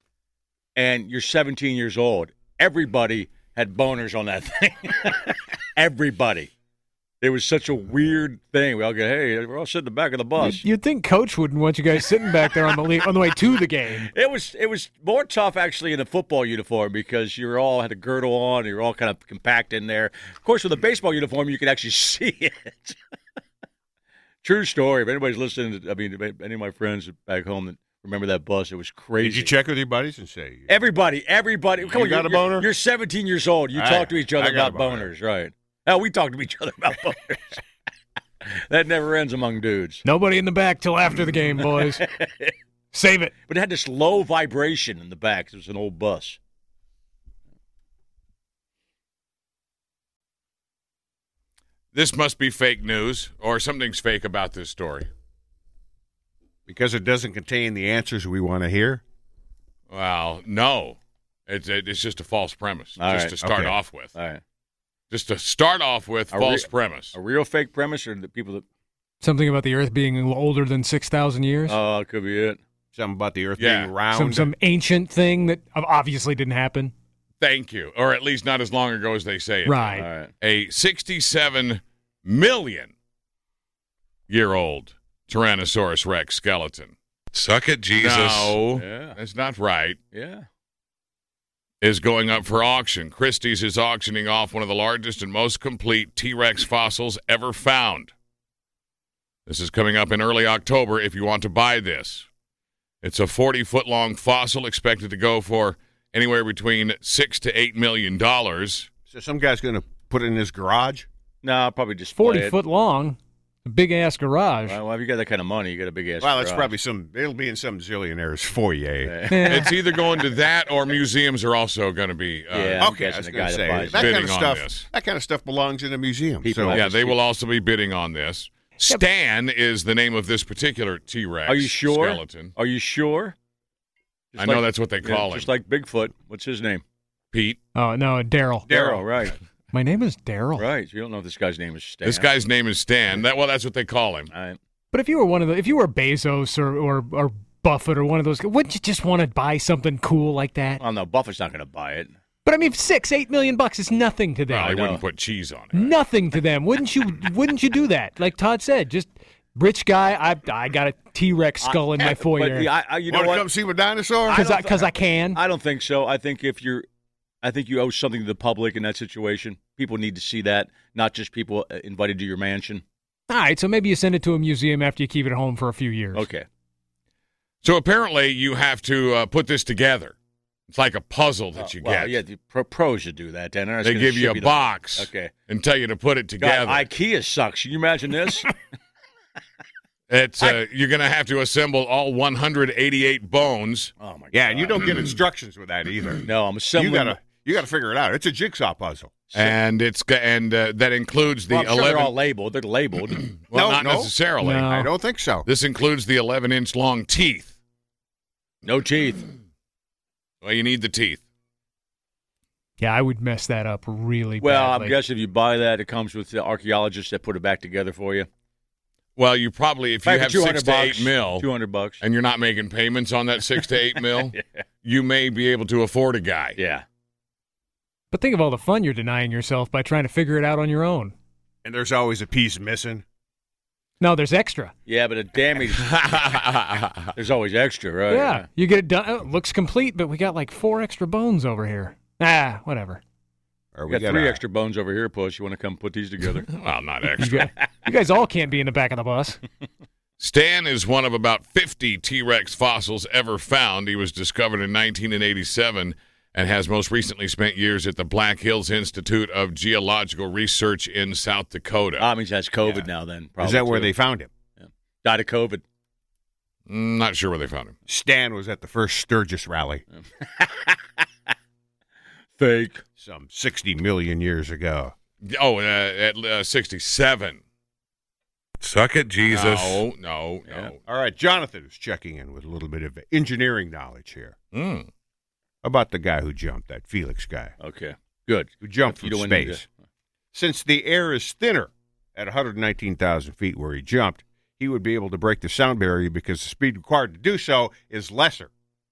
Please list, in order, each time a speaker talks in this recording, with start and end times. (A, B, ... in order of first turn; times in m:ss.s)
0:00.8-0:06.5 A
0:07.2-0:10.6 A
0:10.4-0:14.1 B
0:14.1-0:23.0 A
0:24.4-0:29.5 A
0:29.2-0:30.8 C
0:30.7-0:37.6 A
0:31.9-0:32.7 C
0:33.7-0:35.1 C
0:38.4-0:40.0 A
0:40.0-0:42.0 B
0:41.8-0:42.5 A
0:42.9-0:43.3 B
0:43.5-0:46.4 A
0:51.9-0:55.1 D
0:56.7-0:59.0 C
0:59.9-1:04.1 D
1:03.0-1:03.4 A
1:03.4-1:03.7 C
1:04.1-1:04.4 A
1:05.1-1:07.1 D
1:06.3-1:08.6 A
1:09.2-1:11.8 B
1:11.7-1:12.6 A
1:12.9-1:14.5 C
1:13.6-1:14.0 D
1:14.1-1:16.9 B
1:17.4-1:22.9 D
1:19.6-1:20.0 B
1:19.9-1:20.3 A
1:24.3-1:26.9 D
1:27.3-1:28.6 E
1:28.0-1:30.0 D
1:28.7-1:29.2 A
1:30.1-1:30.4 A
1:31.8-1:38.1 D
1:39.5-1:42.3 D
1:43.0-1:48.9 D
1:49.1-1:51.1 C
1:51.4-1:52.6 A
1:52.2-1:54.8 B
1:54.6-1:56.7 A
1:56.2-1:59.2 C
1:59.0-1:59.7 A
1:59.3-1:59.7 B
1:59.4-2:02.8 D
2:02.5-2:04.1 A
2:02.8-2:06.8 C
2:03.9-2:04.9 D
2:06.4-2:07.2 A
2:06.7-2:12.5 D
2:11.4-2:13.3 A
2:14.3-2:16.8 A
2:14.4-2:15.5 D
2:17.3-2:17.6 D
2:17.7-2:18.7 B
2:18.7-2:19.1 C
2:18.7-2:19.4 A
2:19.7-2:20.7 B
2:20.6-2:22.3 A
2:22.0-2:24.3 D
2:24.3-2:24.6 A
2:24.9-2:30.8 B
2:30.8-2:32.1 A
2:32.4-2:35.0 B
2:34.5-2:35.0 A
2:34.5-2:36.0 D
2:35.7-2:42.7 B
2:41.6-2:43.5 A
2:43.1-2:44.5 C
2:44.3-2:46.8 A
2:44.3-2:45.4 B
2:47.4-2:52.8 A
2:53.3-2:56.3 B
2:56.1-2:56.4 A
2:57.6-3:00.2 D
3:00.7-3:02.2 D
3:01.6-3:05.3 A
3:03.8-3:06.9 D
3:06.4-3:08.5 A
3:10.1-3:13.9 D
3:14.0-3:14.9 A
3:14.3-3:19.2 C
3:16.2-3:17.2 A
3:19.3-3:19.6 A
3:19.3-3:22.1 D
3:21.5-3:23.2 A
3:23.1-3:24.7 D
3:23.5-3:24.1 C
3:24.4-3:24.9 B
3:24.7-3:25.5 C
3:25.4-3:27.5 D
3:28.6-3:29.3 A
3:30.4-3:31.2 D
3:32.8-3:35.0 B
3:34.4-3:38.3 A
3:39.2-3:41.5 D
3:40.0-3:42.0 A
3:42.0-3:46.6 D
3:46.6-3:46.8 A
3:48.1-3:51.1 B
3:51.6-3:53.0 C
3:54.0-3:54.7 B
3:54.8-3:56.0 A
3:55.8-3:57.1 D
3:57.1-3:58.5 A
3:58.1-4:03.0 B
4:03.7-4:04.4 C
4:03.9-4:06.5 A
4:06.5-4:07.4 D
4:07.2-4:09.4 B
4:10.2-4:22.1 D
4:22.0-4:23.9 A
4:23.4-4:24.3 C
4:24.6-4:25.6 A
4:26.7-4:27.7 D
4:27.9-4:29.8 C
4:30.2-4:30.7 A
4:32.4-4:32.8 A
4:33.0-4:34.9 C
4:35.2-4:37.4 D
4:38.6-4:39.8 E
4:39.3-4:40.8 D
4:40.4-4:40.7 A
4:40.9-4:44.3 C
4:44.5-4:44.9 D
4:45.6-4:47.5 C
4:47.6-4:49.6 A
4:48.6-4:49.7 C
4:50.3-4:58.5 C